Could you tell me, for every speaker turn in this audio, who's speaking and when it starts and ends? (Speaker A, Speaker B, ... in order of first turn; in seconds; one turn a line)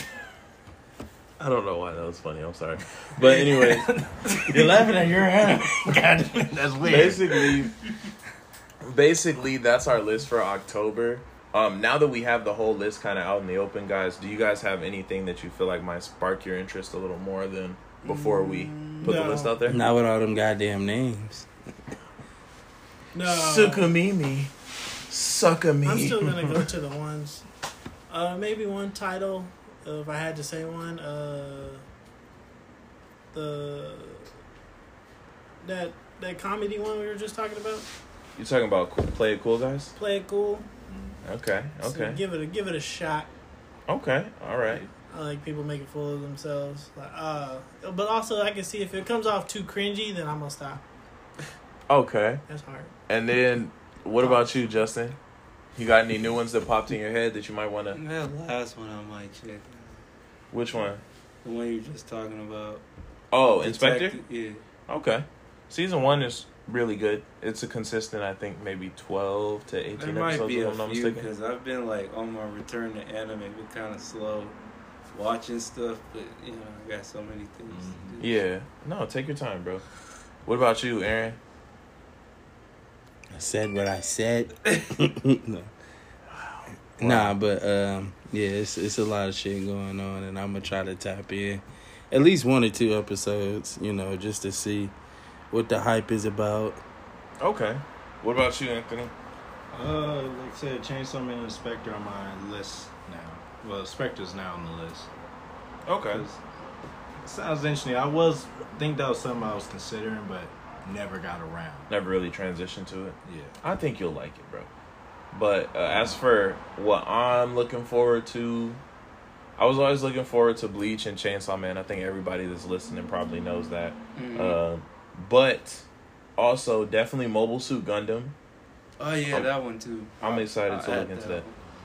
Speaker A: 1.4-4.0
Speaker B: 3.2-7.6
Speaker A: 4.5-4.9
Speaker A: 6.8-7.7
Speaker A: 8.8-19.8
Speaker C: 18.0-19.4
Speaker D: 19.0-19.6
Speaker E: 19.7-21.5
Speaker D: 23.1-23.9
Speaker A: 23.2-24.5
Speaker A: 25.1-26.7
Speaker D: 25.8-27.4
Speaker D: 28.1-31.8
Speaker D: 33.3-34.3
Speaker D: 35.6-37.9
Speaker A: 38.4-40.0
Speaker D: 40.0-40.7
Speaker B: 40.9-41.2
Speaker A: 41.2-42.2
Speaker D: 41.8-43.3
Speaker A: 43.9-44.9
Speaker D: 45.1-50.8
Speaker A: 51.9-52.4
Speaker D: 52.5-52.9
Speaker A: 53.1-55.2
Speaker A: 55.8-58.0
Speaker C: 57.9-60.0
Speaker A: 60.5-61.0
Speaker C: 61.4-62.8
Speaker A: 63.3-64.2
Speaker C: 63.6-64.6
Speaker A: 64.9-71.3
Speaker C: 70.0-74.6
Speaker C: 75.1-78.3
Speaker B: 77.7-78.2
Speaker A: 78.2-79.8
Speaker A: 80.5-81.4
Speaker E: 83.3-85.7
Speaker C: 84.6-85.0
Speaker A: 86.3-87.3
Speaker E: 87.0-94.9
Speaker E: 95.5-96.8
Speaker A: 97.4-99.1
Speaker B: 99.7-105.1
Speaker A: 105.9-106.3
Speaker B: 106.1-106.4
Speaker B: 107.2-111.9
Speaker A: 111.9-114.7
Speaker B: 113.2-113.6
Speaker A: 115.3-118.8
Speaker A: 119.6-125.9
Speaker C: 124.2-124.6
Speaker A: 126.4-128.3
Speaker C: 129.0-131.5
Speaker A: 130.2-131.4